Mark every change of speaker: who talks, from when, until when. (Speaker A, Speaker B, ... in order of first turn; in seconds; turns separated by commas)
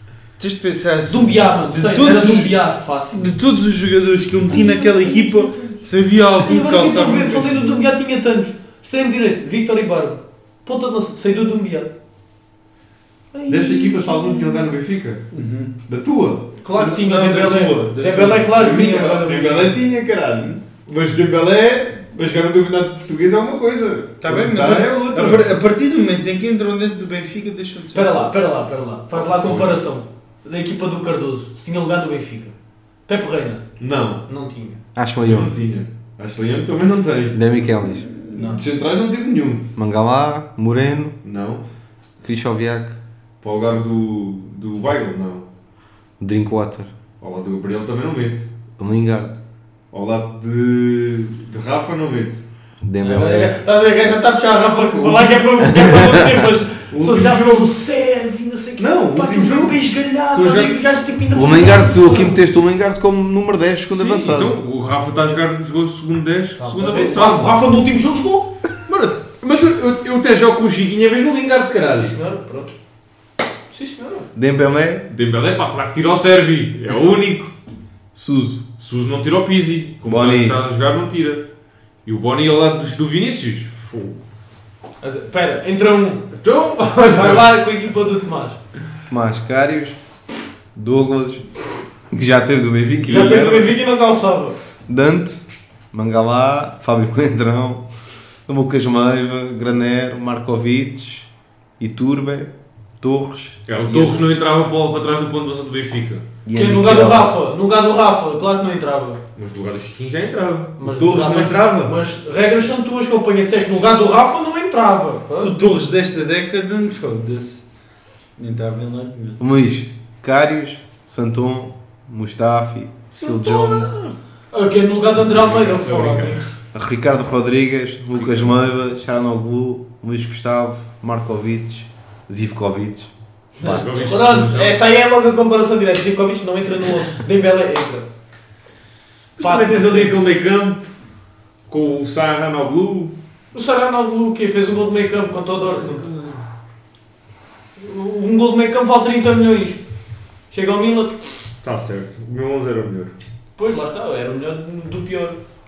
Speaker A: 0.4-2.6, Speaker B: 1.1-3.3, Speaker A: 3.1-7.8, Speaker B: 4.5-5.8, Speaker B: 6.4-11.9, Speaker B: 13.3-14.7, Speaker C: 13.5-15.2, Speaker A: 15.3-15.7, Speaker C: 15.9-16.5, Speaker B: 16.6-19.8, Speaker A: 16.7-18.8, Speaker C: 18.4-25.5, Speaker A: 24.2-28.3, Speaker B: 27.9-32.5, Speaker C: 29.1-29.9, Speaker B: 33.1-33.7, Speaker C: 33.8-34.2, Speaker B: 34.2-34.8, Speaker D: 34.9-35.6, Speaker C: 35.2-37.4, Speaker D: 37.3-38.1, Speaker A: 37.8-38.7, Speaker B: 38.3-38.6, Speaker C: 38.4-39.7, Speaker D: 39.8-41.1, Speaker C: 41.2-41.6, Speaker D: 42.2-43.0, Speaker C: 43.4-45.5, Speaker D: 46.2-46.9, Speaker C: 47.2-48.5, Speaker D: 48.8-49.4, Speaker C: 49.9-52.4, Speaker D: 52.8-53.6, Speaker B: 53.0-62.4, Speaker C: 54.8-55.5, Speaker D: 55.7-56.4, Speaker C: 56.9-57.8, Speaker C: 58.8-59.8, Speaker C: 60.3-60.9, Speaker D: 61.3-64.6, Speaker C: 63.9-67.6, Speaker B: 66.6-68.5, Speaker C: 68.8-72.1, Speaker B: 71.9-72.7, Speaker B: 73.7-74.3, Speaker D: 74.3-75.0, Speaker C: 75.1-77.5, Speaker D: 78.1-78.6, Speaker C: 78.8-81.5, Speaker D: 80.0-80.6, Speaker C: 82.0-84.2, Speaker B: 85.0-86.3, Speaker C: 86.3-87.5, Speaker B: 87.0-88.6, Speaker D: 89.1-90.0, Speaker D: 90.7-91.5, Speaker D: 92.1-93.6, Speaker C: 93.1-93.7, Speaker B: 93.1-94.5, Speaker D: 94.9-97.8, Speaker D: 98.5-104.2, Speaker C: 103.7-106.3, Speaker D: 106.4-107.3, Speaker B: 106.5-109.2, Speaker C: 109.3-112.0, Speaker B: 110.8-115.5, Speaker A: 115.4-117.6, Speaker A: 118.4-119.4, Speaker D: 119.4-123.9, Speaker C: 123.2-123.9, Speaker B: 124.5-126.5, Speaker C: 125.2-126.5, Speaker D: 126.7-133.9, Speaker C: 128.1-128.6, Speaker C: 133.6-134.8, Speaker B: 133.7-138.1, Speaker C: 139.4-140.9, Speaker B: 139.4-140.2, Speaker C: 141.7-143.1, Speaker B: 143.5-146.1, Speaker C: 145.8-146.4, Speaker B: 147.8-149.8, Speaker B: 150.5-151.4, Speaker C: 151.6-153.1, Speaker B: 153.6-155.4